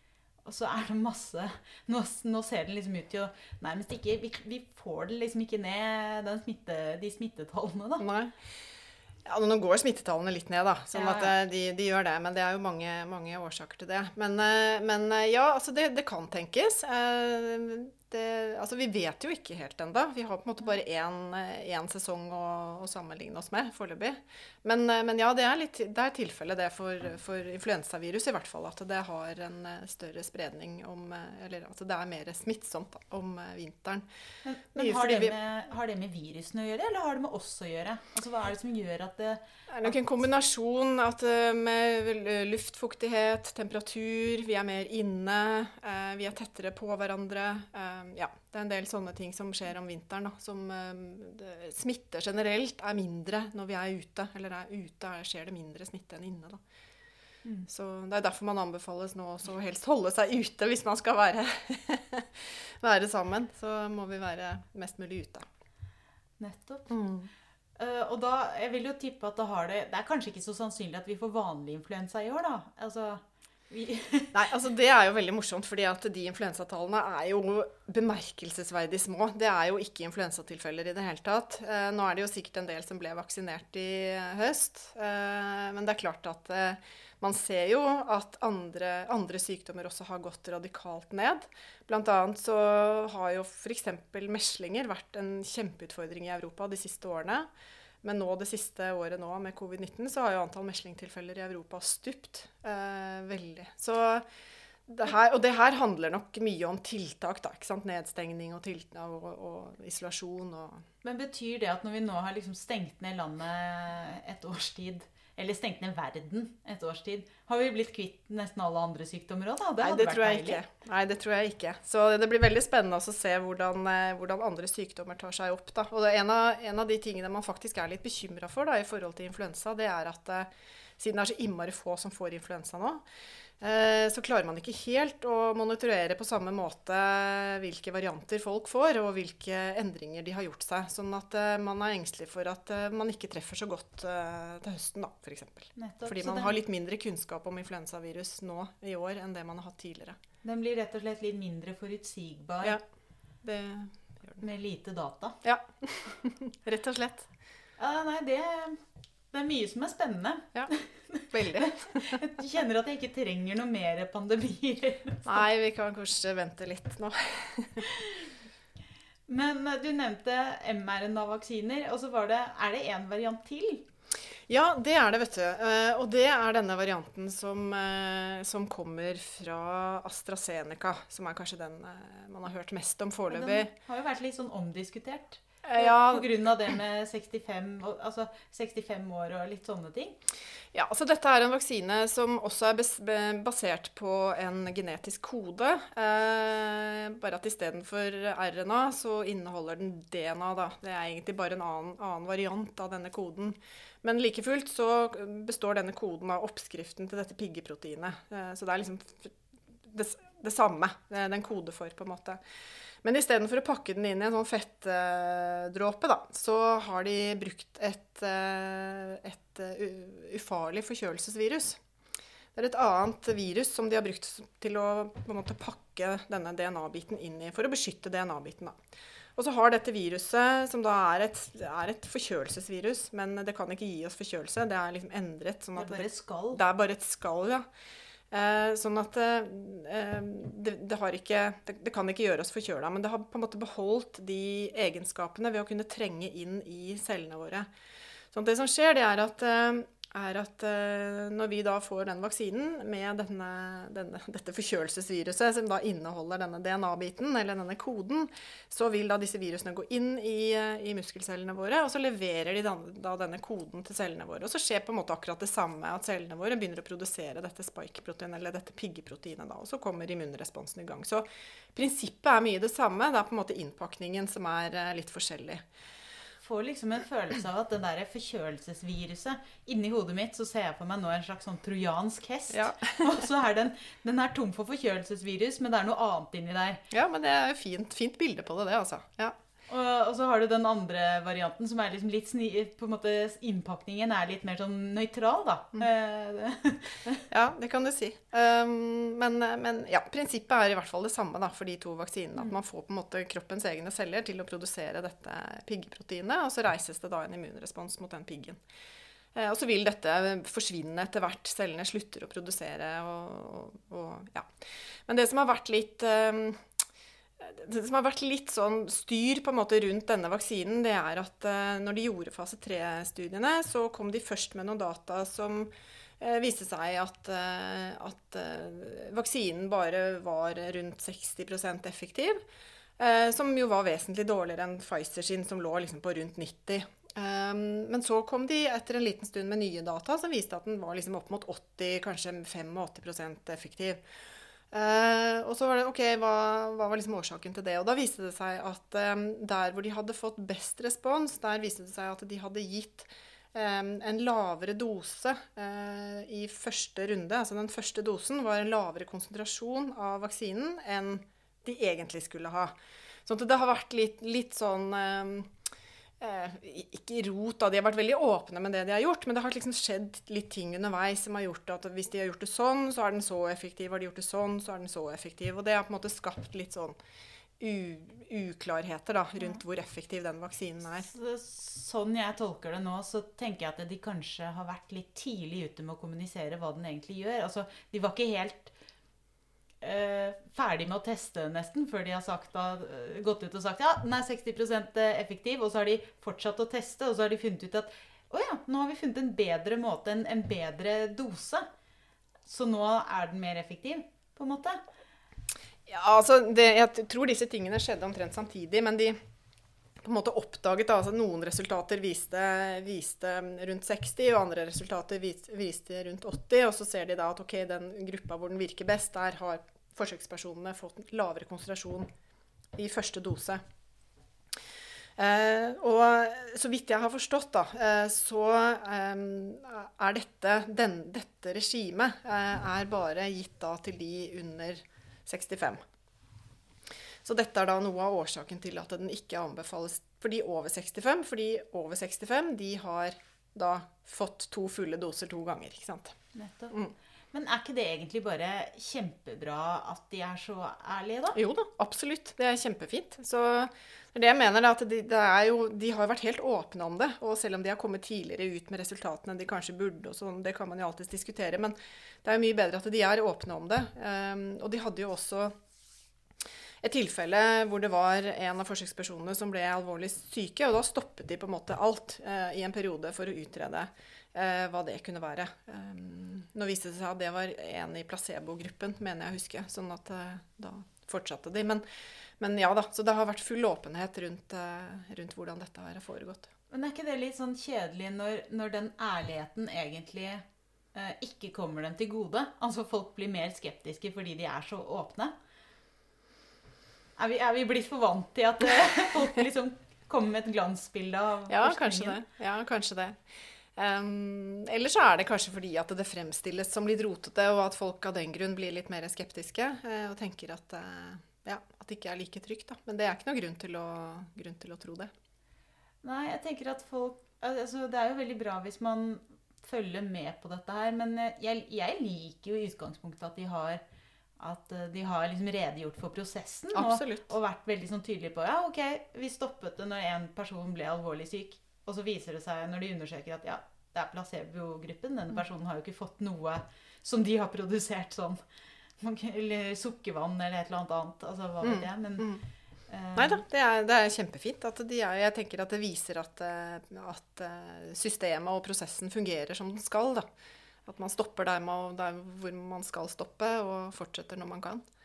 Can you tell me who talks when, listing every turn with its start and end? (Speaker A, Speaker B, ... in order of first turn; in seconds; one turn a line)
Speaker A: 0.5-8.1
Speaker B: 8.0-8.4
Speaker B: 9.3-34.0
Speaker A: 10.9-11.3
Speaker A: 34.5-40.0
Speaker B: 34.8-35.4
Speaker B: 39.7-56.6
Speaker B: 57.7-65.5
Speaker A: 66.4-66.9
Speaker B: 66.9-67.3
Speaker A: 67.8-74.5
Speaker B: 74.3-97.5
Speaker B: 98.0-104.2
Speaker B: 104.9-110.8
Speaker A: 111.0-120.6
Speaker B: 119.8-133.0
Speaker B: 133.6-150.2
Speaker A: 145.8-146.6
Speaker A: 150.4-152.8
Speaker B: 153.4-154.4
Speaker A: 154.4-155.4
Speaker B: 155.4-157.3
Speaker A: 157.8-158.8
Speaker A: 159.3-165.4
Speaker B: 161.3-162.2
Speaker B: 165.2-167.9
Speaker A: 167.8-168.3
Speaker A: 169.3-173.8
Speaker B: 174.5-183.7
Speaker A: 183.3-190.2
Speaker B: 185.7-186.3
Speaker B: 190.7-212.4
Speaker B: 213.0-221.8
Speaker B: 222.6-228.8
Speaker B: 229.4-237.6
Speaker A: 235.8-236.6
Speaker B: 238.3-247.7
Speaker B: 248.3-275.6
Speaker A: 276.4-286.8
Speaker B: 282.5-283.2
Speaker B: 286.9-289.4
Speaker A: 289.7-297.2
Speaker B: 297.3-308.6
Speaker B: 309.4-316.7
Speaker B: 317.4-332.4
Speaker B: 333.0-344.0
Speaker B: 344.7-362.7
Speaker B: 363.3-365.5
Speaker B: 366.2-377.0
Speaker B: 377.6-381.1
Speaker A: 381.1-388.7
Speaker A: 389.8-401.7
Speaker A: 402.5-404.8
Speaker B: 405.9-409.2
Speaker B: 410.0-422.1
Speaker B: 422.7-423.6
Speaker B: 425.2-435.8
Speaker B: 437.2-446.2
Speaker A: 446.3-446.8
Speaker A: 447.3-451.4
Speaker B: 451.4-465.5
Speaker B: 466.8-481.8
Speaker B: 482.4-486.5
Speaker A: 486.7-495.3
Speaker A: 497.2-502.2
Speaker B: 501.5-503.2
Speaker B: 503.8-515.1
Speaker A: 516.0-523.8
Speaker A: 524.4-538.4
Speaker B: 526.7-527.3
Speaker A: 539.0-542.3
Speaker B: 541.6-542.4
Speaker A: 542.9-543.4
Speaker B: 543.2-550.3
Speaker B: 550.9-554.8